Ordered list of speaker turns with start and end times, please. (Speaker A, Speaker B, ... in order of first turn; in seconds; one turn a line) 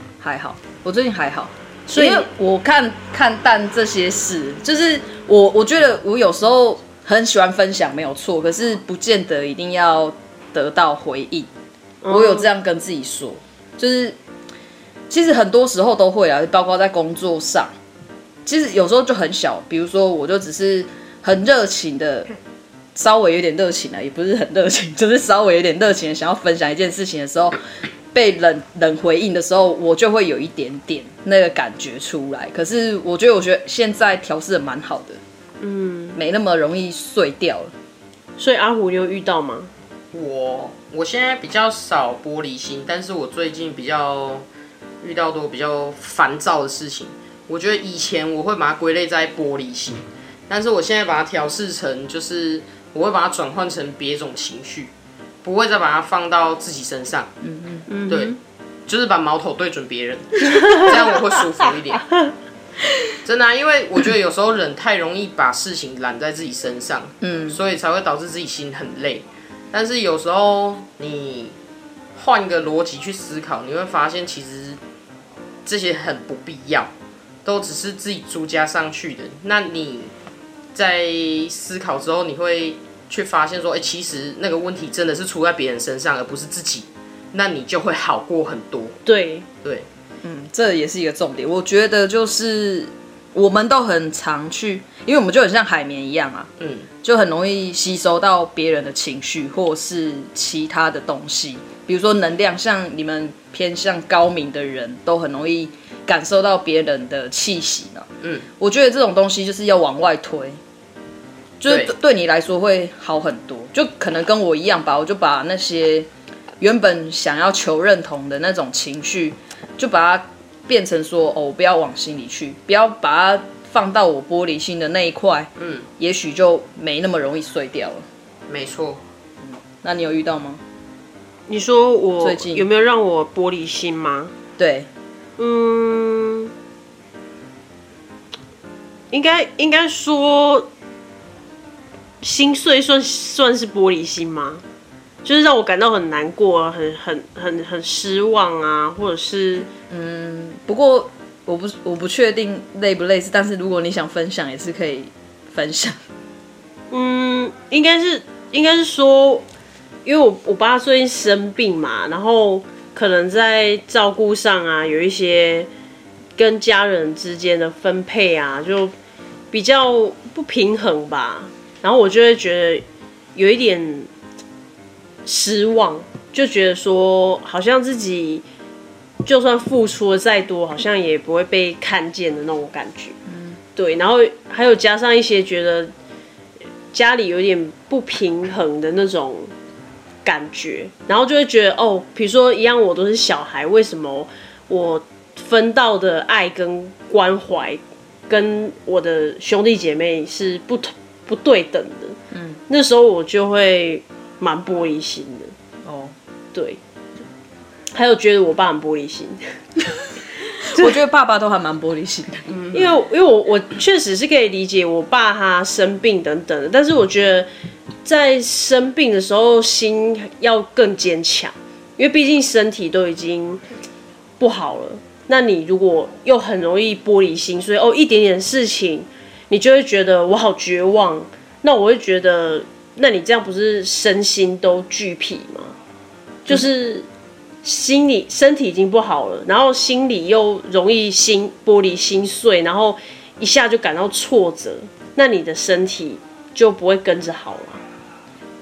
Speaker A: 0.2-11.5
Speaker B: 1.9-2.2
Speaker B: 12.0-12.4
Speaker A: 12.1-14.2
Speaker A: 15.1-17.7
Speaker A: 18.4-22.3
Speaker A: 22.9-27.6
Speaker A: 28.1-35.2
Speaker B: 35.6-36.2
Speaker A: 36.1-37.7
Speaker B: 38.4-39.7
Speaker C: 40.1-44.4
Speaker C: 45.0-54.9
Speaker C: 55.4-57.3
Speaker A: 57.4-57.9
Speaker B: 57.9-58.4
Speaker C: 58.1-58.3
Speaker C: 58.9-62.1
Speaker B: 60.6-60.9
Speaker C: 63.2-71.5
Speaker A: 67.2-67.6
Speaker C: 72.1-74.8
Speaker C: 75.6-76.9
Speaker C: 77.4-80.1
Speaker C: 80.7-89.0
Speaker B: 89.0-89.5
Speaker A: 90.2-96.5
Speaker C: 96.6-96.9
Speaker A: 97.0-108.1
Speaker A: 108.6-110.6
Speaker A: 111.6-116.1
Speaker A: 116.6-128.1
Speaker C: 125.6-125.9
Speaker C: 128.5-129.0
Speaker A: 129.4-130.6
Speaker B: 131.5-134.3
Speaker A: 132.2-132.7
Speaker A: 134.6-134.9
Speaker B: 135.4-136.5
Speaker B: 139.1-140.7
Speaker B: 142.2-144.6
Speaker B: 145.2-149.7
Speaker A: 149.9-156.0
Speaker B: 156.9-159.4
Speaker B: 160.0-165.7
Speaker B: 166.4-168.9
Speaker B: 169.5-172.8
Speaker B: 173.3-174.1
Speaker B: 175.2-178.4
Speaker B: 179.2-183.2
Speaker A: 183.3-183.6
Speaker B: 183.8-185.9
Speaker B: 186.9-189.5
Speaker B: 190.2-202.2
Speaker A: 202.3-202.6
Speaker B: 202.7-205.5
Speaker A: 205.8-206.1
Speaker B: 207.9-209.4
Speaker A: 210.6-212.5
Speaker B: 210.7-210.9
Speaker C: 212.5-212.9
Speaker B: 212.7-217.5
Speaker B: 218.0-223.6
Speaker B: 224.4-235.7
Speaker B: 236.4-237.1
Speaker B: 237.6-247.8